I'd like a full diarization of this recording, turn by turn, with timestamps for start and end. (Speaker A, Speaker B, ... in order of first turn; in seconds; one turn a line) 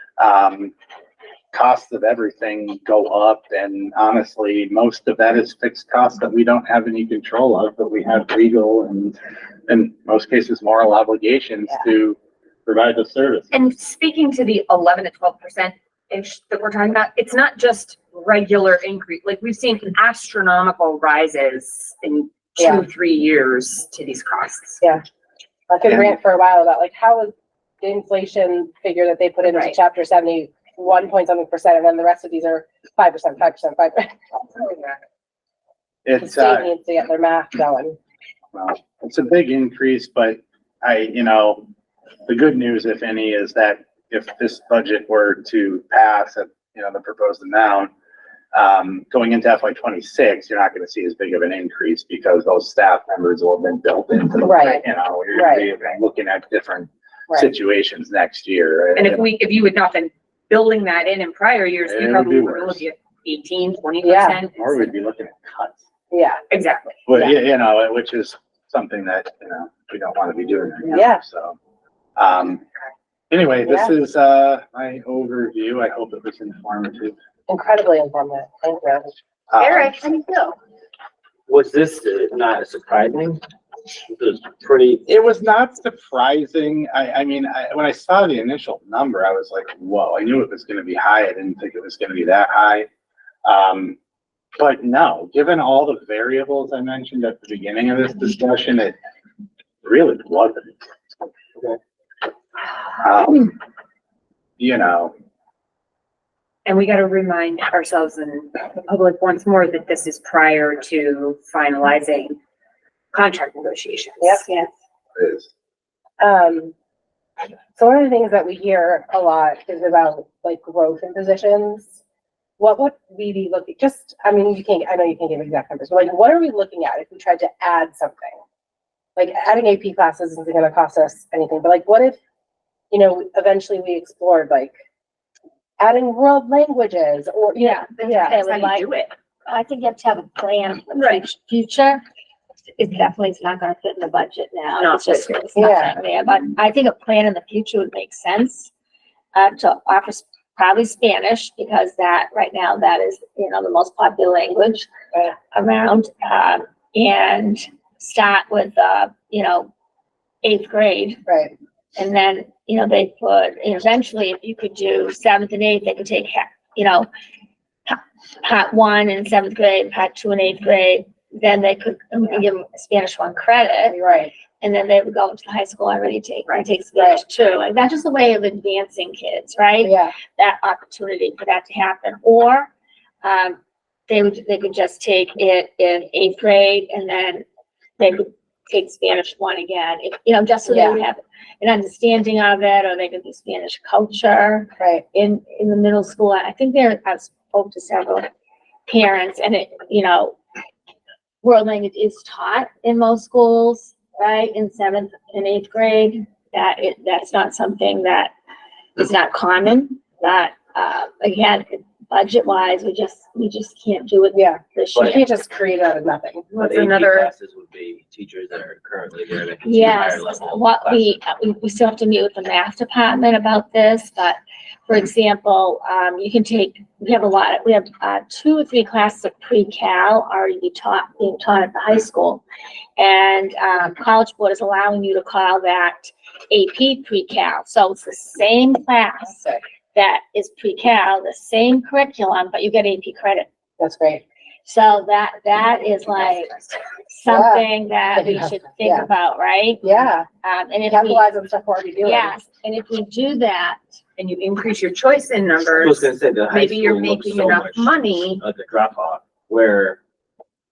Speaker A: 0.2-0.7
Speaker A: 1.5-13.5
Speaker B: 13.5-24.8
Speaker C: 22.6-22.9
Speaker C: 25.7-34.9
Speaker A: 25.9-26.1
Speaker B: 29.4-29.8
Speaker A: 36.0-36.7
Speaker C: 36.2-38.0
Speaker A: 38.5-41.6
Speaker A: 42.3-47.9
Speaker A: 48.5-59.2
Speaker C: 54.4-55.7
Speaker B: 59.0-64.9
Speaker A: 61.9-62.8
Speaker C: 64.0-64.4
Speaker A: 64.5-65.9
Speaker C: 66.1-66.4
Speaker B: 66.5-67.0
Speaker A: 67.1-71.6
Speaker C: 70.9-71.2
Speaker A: 72.2-72.6
Speaker A: 73.3-77.2
Speaker C: 73.7-73.9
Speaker C: 77.5-79.1
Speaker A: 79.5-80.0
Speaker B: 79.6-80.6
Speaker D: 81.5-85.0
Speaker A: 85.1-92.9
Speaker A: 93.5-94.0
Speaker A: 94.6-99.0
Speaker A: 99.8-100.9
Speaker A: 103.0-103.5
Speaker A: 104.6-105.1
Speaker B: 106.7-112.4
Speaker B: 113.1-114.4
Speaker E: 114.5-114.7
Speaker A: 115.2-115.5
Speaker C: 116.2-116.7
Speaker C: 117.7-121.9
Speaker C: 122.6-128.4
Speaker C: 129.2-132.2
Speaker C: 132.9-134.8
Speaker C: 135.8-138.4
Speaker E: 137.6-138.9
Speaker B: 138.0-139.1
Speaker E: 139.5-142.0
Speaker B: 141.0-141.2
Speaker E: 142.8-148.7
Speaker B: 144.8-145.8
Speaker C: 145.6-145.9
Speaker E: 149.3-159.7
Speaker E: 160.4-161.2
Speaker C: 161.3-161.5
Speaker E: 162.0-167.1
Speaker E: 167.9-174.0
Speaker C: 173.9-174.3
Speaker E: 174.6-182.7
Speaker C: 179.8-180.1
Speaker E: 183.2-187.4
Speaker E: 188.0-198.3
Speaker C: 190.7-191.0
Speaker E: 198.9-200.4
Speaker E: 201.4-208.3
Speaker E: 209.0-215.2
Speaker C: 214.3-216.5
Speaker B: 216.5-217.3
Speaker D: 216.6-221.2
Speaker E: 219.6-232.4
Speaker E: 233.0-243.5
Speaker C: 243.8-244.2
Speaker E: 244.7-251.3
Speaker C: 247.3-249.1
Speaker C: 249.8-250.3
Speaker C: 250.9-252.3
Speaker E: 252.0-253.8
Speaker B: 254.2-258.4
Speaker D: 255.8-260.0